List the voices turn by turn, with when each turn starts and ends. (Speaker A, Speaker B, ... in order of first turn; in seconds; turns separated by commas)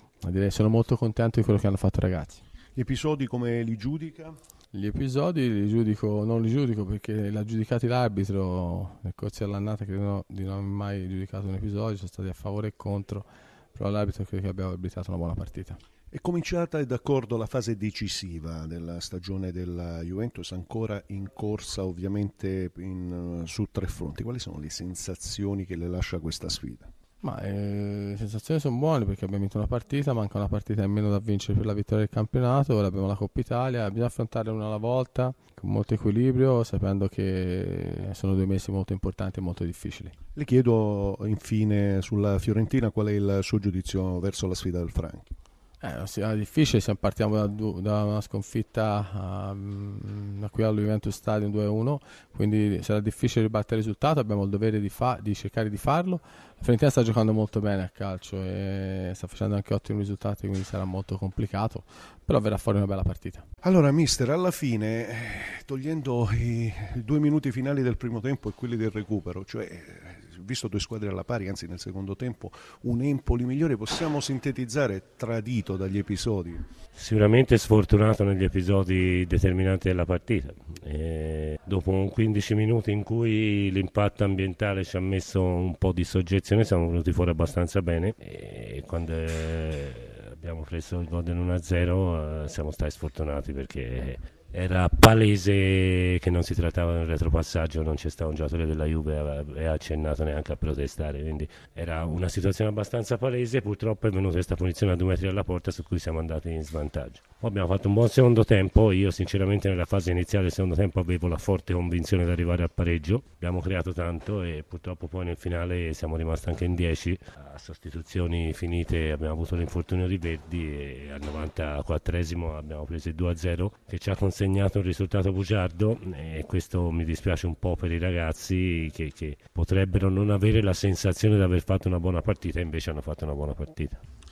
Speaker A: 0.2-2.4, Speaker B: 2.7-4.3, Speaker A: 4.7-15.8, Speaker B: 16.1-26.9, Speaker A: 27.2-40.1, Speaker B: 40.4-45.3, Speaker A: 45.8-63.4, Speaker B: 63.6-76.7, Speaker C: 77.0-134.0